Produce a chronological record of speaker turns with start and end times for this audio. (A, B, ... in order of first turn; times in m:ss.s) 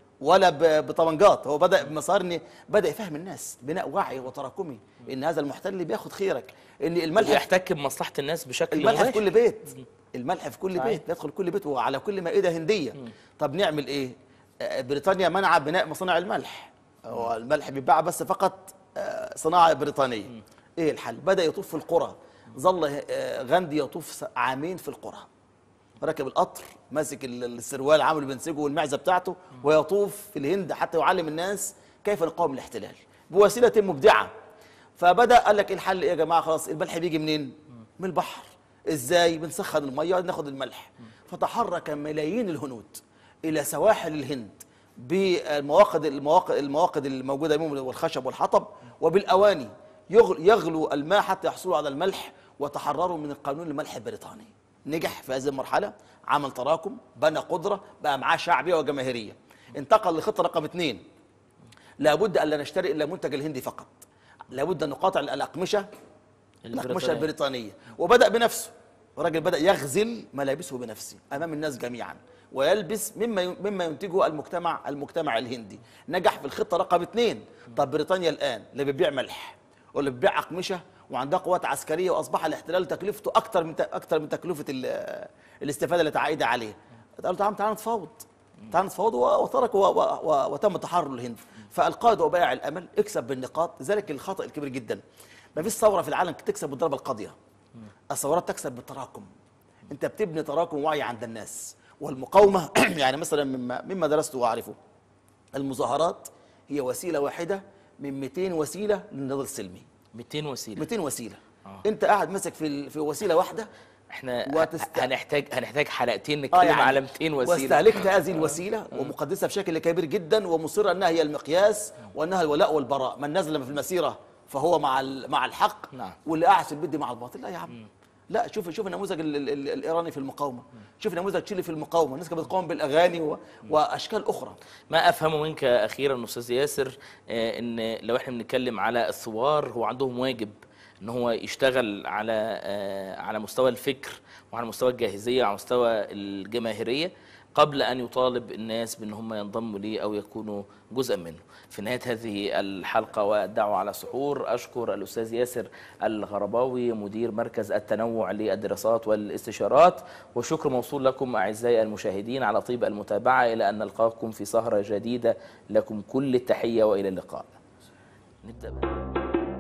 0:00.2-0:07.5 A
0:07.2-0:09.3 B
0:08.7-0:25.3 A
0:26.0-0:34.3 A
0:35.0-1:01.0 A
1:02.0-1:05.9 A
1:06.6-1:07.3 B
1:06.7-1:35.0 A
1:35.6-1:37.4 A
1:38.1-1:39.3 A
1:39.9-1:44.8 A
1:45.6-1:49.9 A
1:50.2-1:50.9 B
1:50.8-1:53.7 A
1:54.1-1:58.1 B
1:54.5-1:55.1 A
1:56.5-2:07.8 A
2:08.3-2:14.6 A
2:14.9-2:47.6 B
2:48.4-2:48.9 B